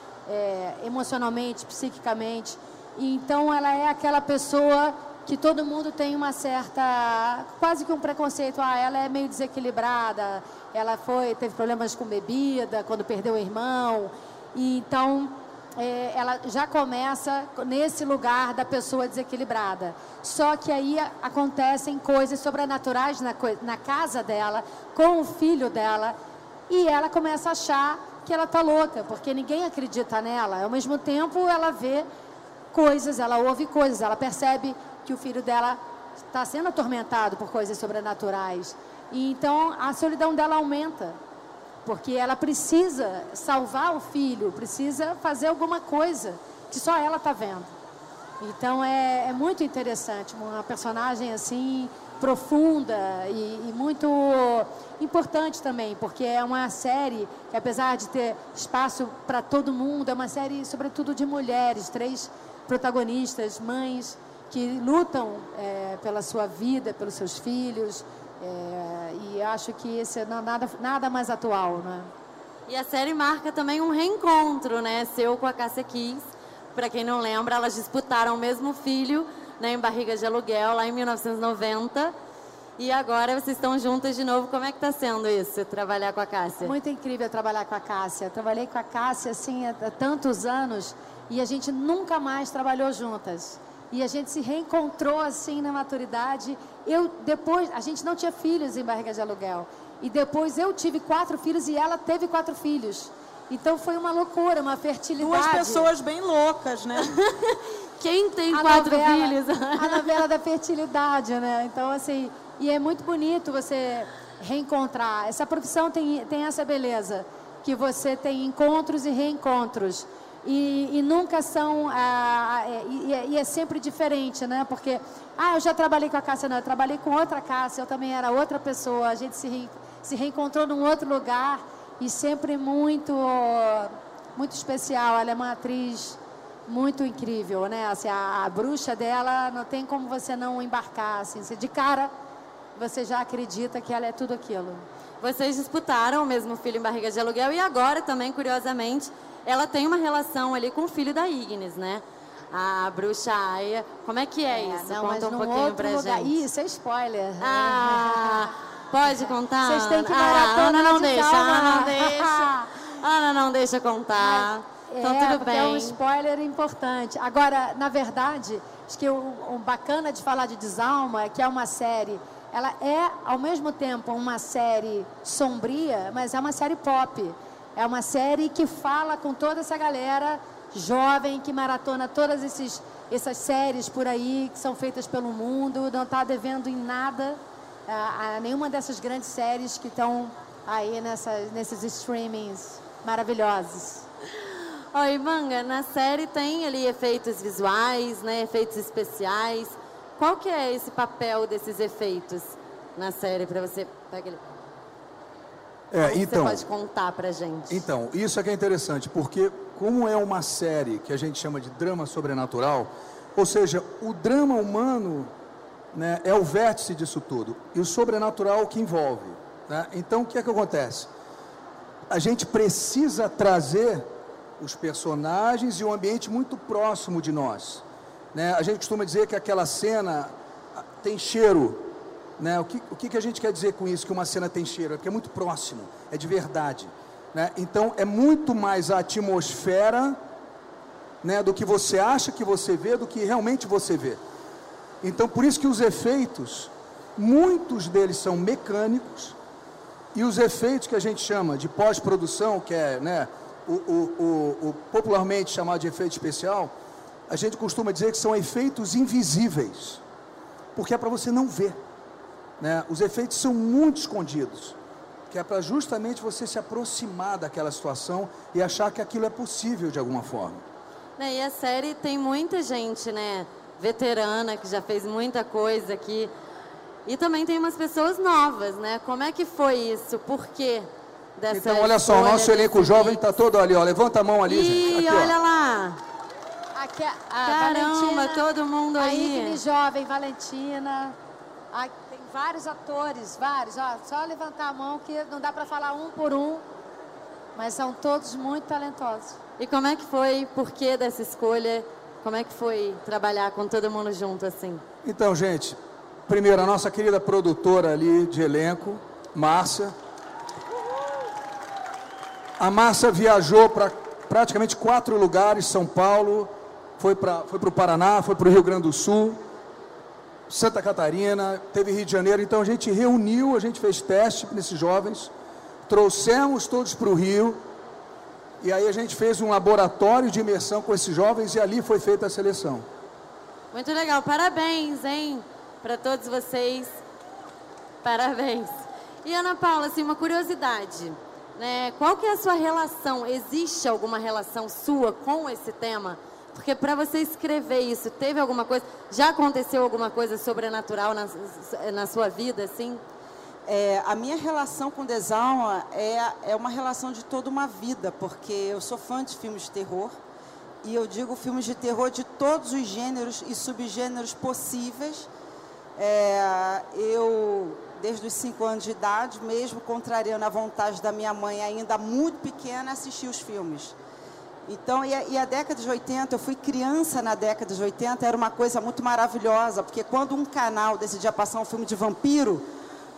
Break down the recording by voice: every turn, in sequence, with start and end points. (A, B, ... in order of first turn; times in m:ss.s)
0:00.2-0:26.2 A
0:26.7-0:32.1 A
0:32.7-0:41.2 A
0:41.8-0:47.7 A
0:48.4-1:12.1 A
1:12.7-1:16.2 B
1:16.7-1:22.1 B
1:22.8-1:26.7 B
1:26.6-1:45.9 A
1:45.2-1:47.1 C
1:47.0-1:50.2 B
1:48.5-2:22.1 A
2:22.8-2:24.8 A
2:25.2-2:36.4 B
2:34.5-2:38.5 A
2:37.4-2:46.0 B
2:39.1-2:42.7 A
2:44.2-3:14.0 A
3:14.9-3:24.4 B
3:25.9-3:26.6 D
3:26.0-3:27.8 B
3:27.7-3:35.3 D
3:35.9-3:41.1 D
3:42.1-3:44.1 D
3:44.6-3:47.8 D
3:48.3-3:51.9 D
3:52.4-4:00.2 D
4:01.2-4:04.2 D
4:05.0-4:09.4 D
4:10.1-4:16.7 D
4:17.3-4:20.0 D
4:20.7-4:21.8 D
4:22.6-4:24.8 D
4:25.3-4:30.6 D
4:31.2-4:36.3 B
4:37.0-4:43.2 B
4:41.5-4:45.3 D
4:44.4-4:46.0 B
4:46.7-4:48.5 A
4:47.4-4:49.6 B
4:49.0-4:51.1 A
4:51.7-4:56.6 A
4:57.6-4:59.4 A
4:59.6-5:04.8 B
5:05.0-5:09.9 D
5:12.6-5:19.4 D
5:20.5-5:25.3 D
5:25.9-5:27.6 D
5:28.6-5:32.8 D
5:33.7-5:36.9 B
5:38.0-5:53.0 B
5:53.6-6:00.1 E
6:00.8-6:05.3 E
6:06.0-6:13.9 E
6:14.6-6:22.7 E